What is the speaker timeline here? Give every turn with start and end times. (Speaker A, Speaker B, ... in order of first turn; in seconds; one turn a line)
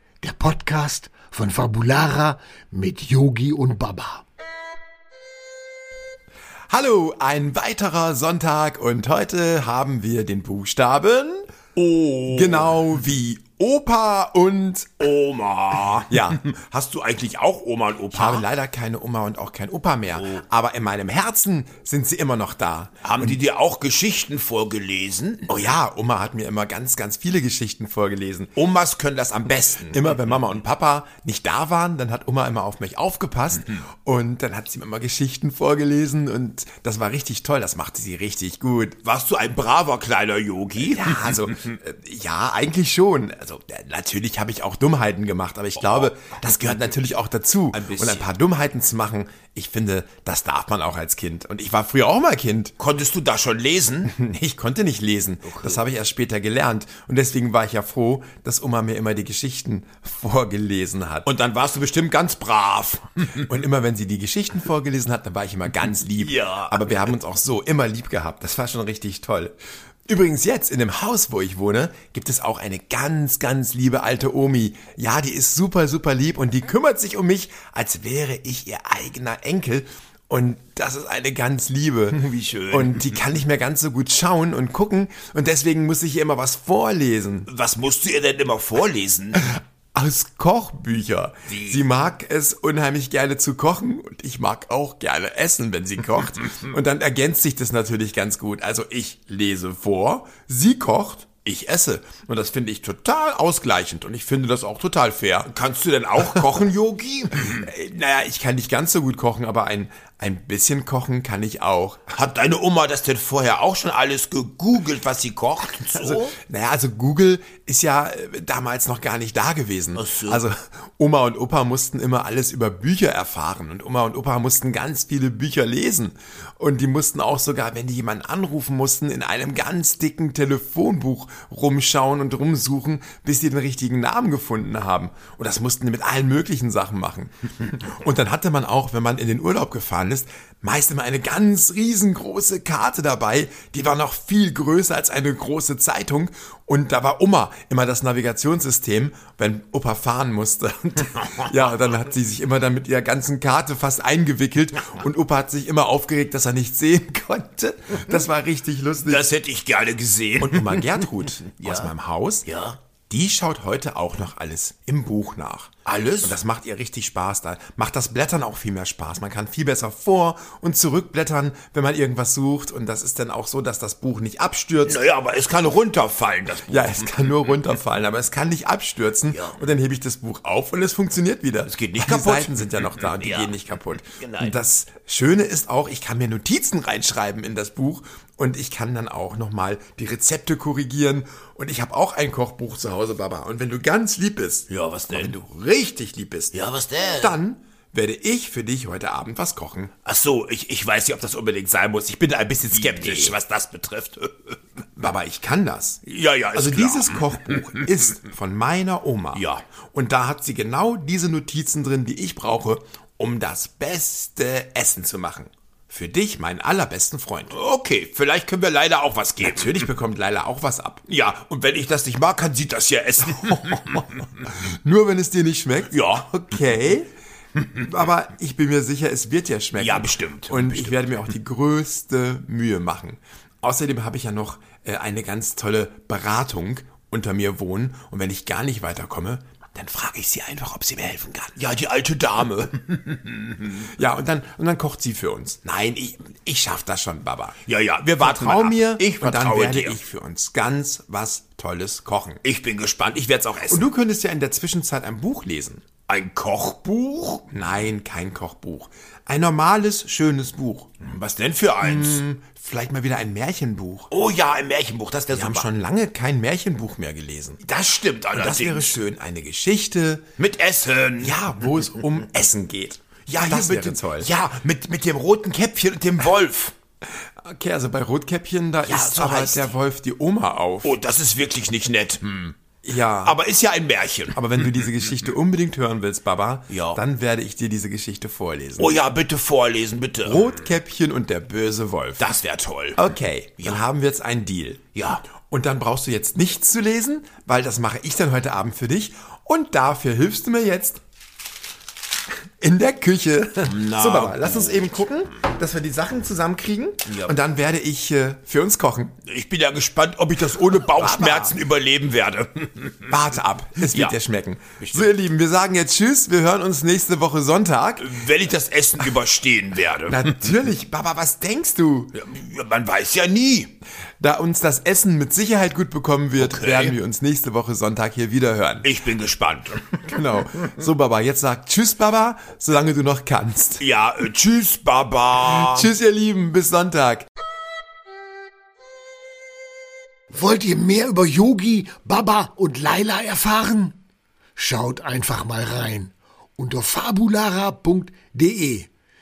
Speaker A: 0.2-4.2
Speaker B: 6.7-11.5
Speaker C: 11.8-12.8
Speaker B: 12.3-15.1
Speaker C: 15.0-18.5
Speaker B: 16.1-16.5
Speaker B: 18.1-23.4
Speaker C: 20.2-20.4
Speaker C: 23.0-25.7
Speaker B: 25.5-28.6
Speaker C: 28.6-30.4
Speaker B: 29.8-39.0
Speaker C: 39.0-41.5
Speaker B: 40.8-52.7
Speaker C: 47.7-48.2
Speaker C: 52.8-54.1
Speaker B: 54.0-61.3
Speaker C: 55.4-55.8
Speaker C: 61.2-63.4
Speaker B: 63.4-69.5
Speaker C: 66.2-67.1
Speaker B: 70.1-87.5
Speaker C: 82.1-83.2
Speaker C: 87.5-89.5
Speaker B: 89.9-105.5
Speaker C: 91.5-91.8
Speaker C: 105.5-107.7
Speaker B: 107.3-112.1
Speaker C: 112.1-116.3
Speaker B: 115.9-159.2
Speaker C: 119.9-120.4
Speaker C: 159.1-161.9
Speaker B: 160.4-162.5
Speaker C: 162.4-162.8
Speaker B: 163.1-165.7
Speaker C: 165.8-166.4
Speaker B: 166.2-175.0
Speaker C: 174.8-177.5
Speaker B: 176.7-196.6
Speaker C: 179.3-179.6
Speaker C: 181.6-184.6
Speaker C: 194.7-195.3
Speaker C: 196.5-197.4
Speaker B: 197.1-199.9
Speaker C: 200.0-204.5
Speaker B: 202.3-203.3
Speaker B: 205.0-206.0
Speaker C: 206.1-207.8
Speaker B: 206.5-217.5
Speaker C: 209.3-209.6
Speaker C: 217.5-219.9
Speaker B: 219.4-221.0
Speaker C: 221.1-224.2
Speaker B: 224.4-227.1
Speaker C: 225.9-226.3
Speaker B: 227.8-241.6
Speaker C: 229.8-231.1
Speaker C: 241.6-243.9
Speaker B: 243.8-247.6
Speaker C: 247.6-250.0
Speaker B: 248.2-252.4
Speaker C: 252.4-253.9
Speaker B: 253.7-255.8
Speaker C: 256.1-257.4
Speaker B: 257.5-261.0
Speaker C: 261.0-262.2
Speaker B: 261.8-264.1
Speaker C: 264.1-265.7
Speaker B: 265.3-267.6
Speaker C: 267.6-269.0
Speaker B: 268.3-270.3
Speaker C: 270.4-271.5
Speaker B: 271.2-274.3
Speaker C: 273.3-276.7
Speaker B: 277.4-281.0
Speaker C: 278.8-279.7
Speaker C: 280.8-282.5
Speaker B: 282.8-283.4
Speaker C: 283.2-284.4
Speaker B: 284.3-289.0
Speaker C: 286.7-287.0
Speaker C: 288.8-290.4
Speaker B: 290.2-292.3
Speaker C: 292.2-293.0
Speaker B: 292.9-301.0
Speaker C: 294.9-295.2
Speaker B: 302.6-309.1
Speaker C: 303.6-304.9
Speaker C: 307.1-307.3
Speaker C: 309.2-313.3
Speaker B: 310.9-311.6
Speaker B: 313.1-318.1
Speaker C: 313.8-314.1
Speaker C: 314.8-315.1
Speaker C: 318.0-320.5
Speaker B: 320.1-322.1
Speaker C: 322.1-323.7
Speaker B: 324.2-328.9
Speaker C: 326.4-326.9
Speaker C: 328.8-329.9
Speaker B: 330.1-333.8
Speaker C: 333.8-335.9
Speaker B: 335.4-337.3
Speaker A: 340.3-344.0
Speaker A: 344.6-348.9